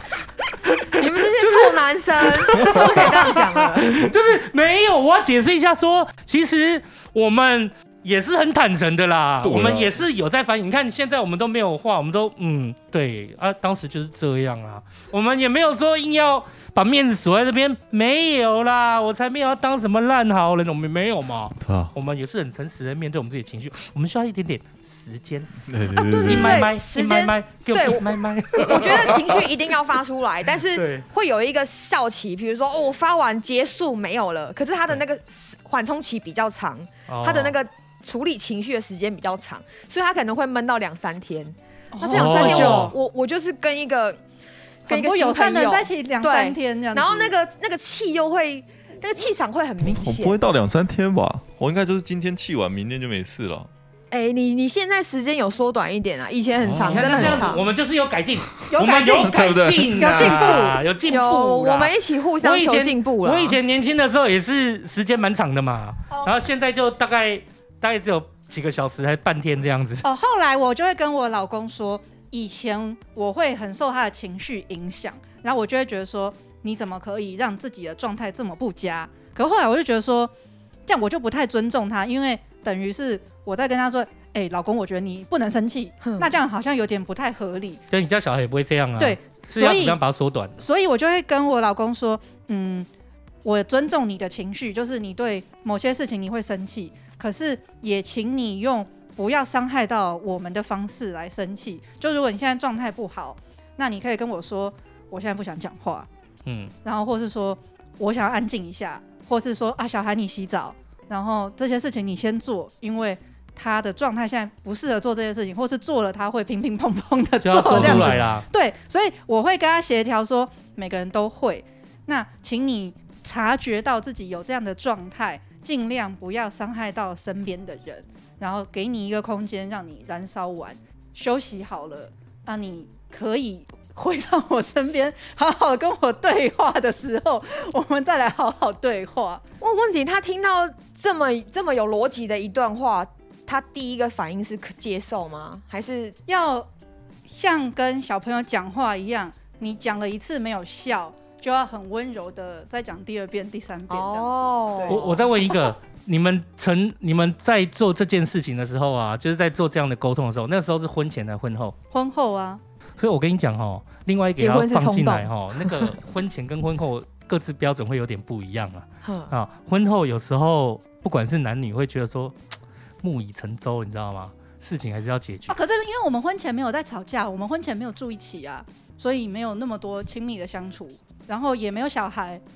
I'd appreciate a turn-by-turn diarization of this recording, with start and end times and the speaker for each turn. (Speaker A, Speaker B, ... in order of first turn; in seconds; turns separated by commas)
Speaker A: 0.7-25.5, Speaker B: 1.0-3.9, Speaker C: 9.4-10.0, Speaker C: 21.6-21.9, Speaker C: 25.7-26.7, Speaker B: 25.9-44.2, Speaker A: 26.2-29.2, Speaker A: 30.7-31.0, Speaker A: 37.1-37.5, Speaker D: 41.9-42.9, Speaker A: 42.1-42.9, Speaker B: 44.9-50.4, Speaker D: 44.9-47.3, Speaker C: 49.8-53.7, Speaker B: 54.1-57.6, Speaker C: 56.6-57.5, Speaker A: 56.8-70.0, Speaker D: 58.7-60.8, Speaker C: 59.1-60.4, Speaker B: 61.1-63.6, Speaker D: 70.0-80.3, Speaker D: 80.9-87.8, Speaker B: 86.0-86.3, Speaker A: 87.9-90.6, Speaker D: 89.0-90.0, Speaker D: 90.6-92.9, Speaker D: 93.4-106.1, Speaker A: 106.5-106.7, Speaker D: 106.8-139.4, Speaker A: 117.4-118.4, Speaker C: 117.6-118.2, Speaker B: 139.6-146.2, Speaker D: 146.3-146.7, Speaker D: 147.3-155.2, Speaker B: 153.9-155.2, Speaker A: 154.9-161.7, Speaker D: 161.9-162.6, Speaker A: 163.0-172.3, Speaker B: 164.4-165.9, Speaker B: 169.0-169.3, Speaker A: 173.0-175.5, Speaker D: 175.5-182.4